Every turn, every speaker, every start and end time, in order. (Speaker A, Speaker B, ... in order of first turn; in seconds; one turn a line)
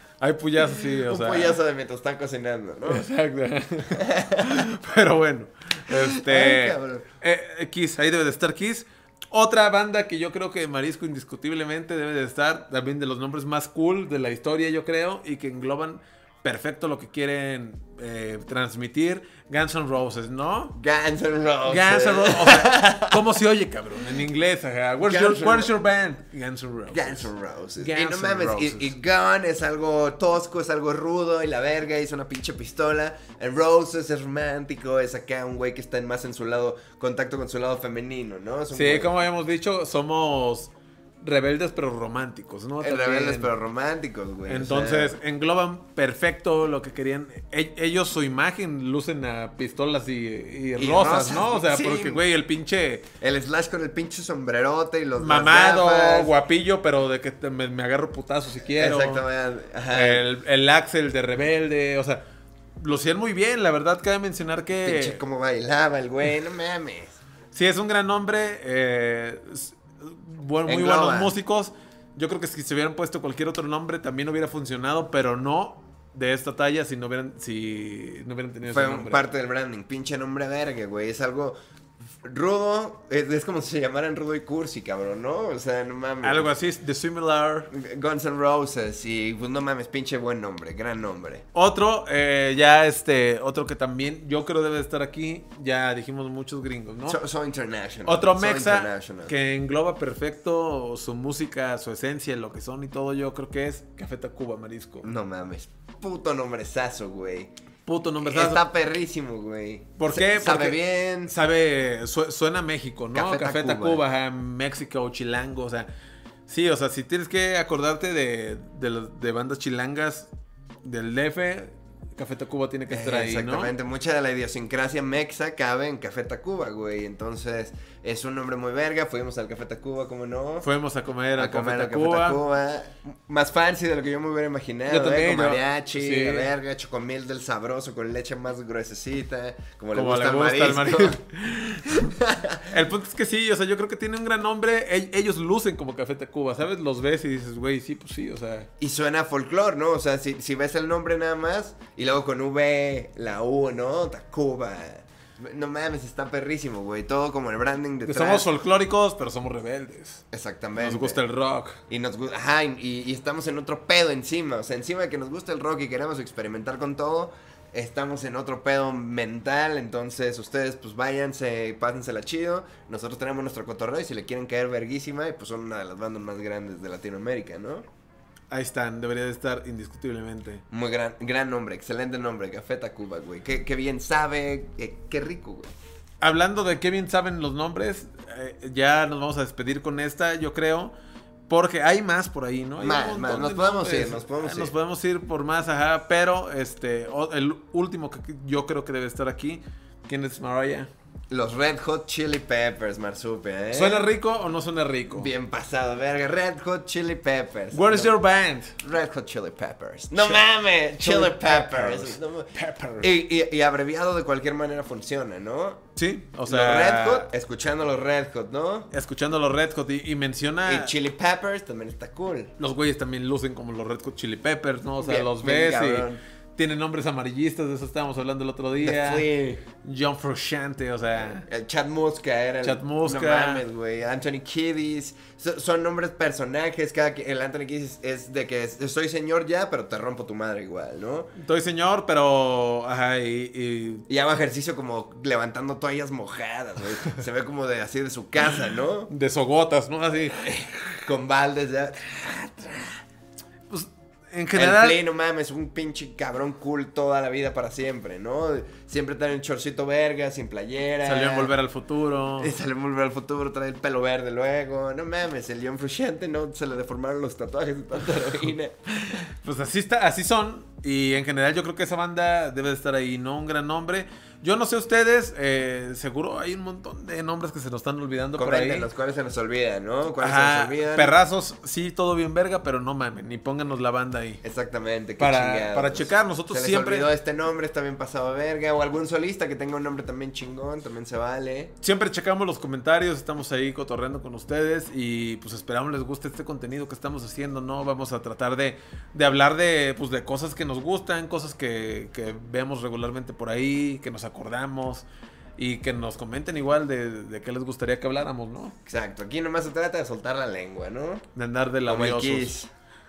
Speaker A: 0.2-1.6
Speaker B: 0.8-3.0
Speaker A: 2.8-20.8
Speaker B: 3.9-4.6
Speaker B: 5.9-7.1
Speaker B: 20.7-23.2
Speaker A: 21.6-28.9
Speaker B: 25.0-25.7
Speaker B: 26.9-39.1
Speaker A: 38.7-43.5
Speaker B: 42.8-45.1
Speaker A: 44.5-53.1
Speaker B: 50.8-52.2
Speaker B: 53.2-56.3
Speaker A: 55.2-59.2
Speaker B: 58.8-60.2
Speaker A: 59.9-62.2
Speaker A: 62.8-65.2
Speaker B: 64.8-67.2
Speaker A: 67.5-79.3
Speaker B: 70.7-71.3
Speaker B: 78.6-81.5
Speaker B: 82.2-86.5
Speaker A: 86.2-87.7
Speaker B: 87.7-91.4
Speaker A: 91.5-97.2
Speaker B: 97.0-99.3
Speaker A: 98.0-105.1
Speaker B: 105.0-107.5
Speaker A: 107.8-108.6
Speaker B: 108.2-111.3
Speaker A: 110.0-115.9
Speaker B: 113.1-114.0
Speaker A: 116.5-120.3
Speaker A: 120.8-123.7
Speaker B: 122.9-130.7
Speaker A: 130.6-132.4
Speaker B: 131.4-141.2
Speaker A: 134.9-136.5
Speaker A: 139.9-142.1
Speaker B: 141.9-142.7
Speaker A: 142.7-148.7
Speaker B: 148.8-158.5
Speaker A: 158.1-160.2
Speaker B: 160.3-161.2
Speaker A: 160.8-161.8
Speaker B: 161.9-177.9
Speaker A: 178.5-180.6
Speaker B: 180.7-185.7
Speaker A: 186.2-190.9
Speaker A: 191.5-200.9
Speaker B: 192.8-194.7
Speaker B: 201.3-204.1
Speaker A: 203.7-205.3
Speaker B: 205.1-208.1
Speaker A: 207.7-208.8
Speaker B: 208.8-215.8
Speaker A: 210.9-213.1
Speaker A: 215.9-217.3
Speaker B: 216.5-218.9
Speaker A: 218.9-220.9
Speaker B: 220.6-222.5
Speaker A: 222.6-229.3
Speaker B: 225.0-226.2
Speaker B: 228.8-229.6
Speaker A: 229.8-231.4
Speaker B: 231.4-241.3
Speaker A: 232.6-233.6
Speaker A: 241.3-244.1
Speaker B: 244.1-249.1
Speaker A: 249.1-250.6
Speaker B: 250.3-253.0
Speaker A: 253.7-255.0
Speaker B: 254.5-261.5
Speaker A: 261.0-262.5
Speaker B: 262.4-268.7
Speaker A: 269.1-278.9
Speaker B: 278.4-281.1
Speaker A: 280.2-284.4
Speaker B: 284.4-291.7
Speaker A: 285.2-287.1
Speaker A: 291.8-305.1
Speaker A: 305.6-308.8
Speaker B: 308.9-311.2
Speaker A: 311.3-312.5
Speaker B: 311.9-312.7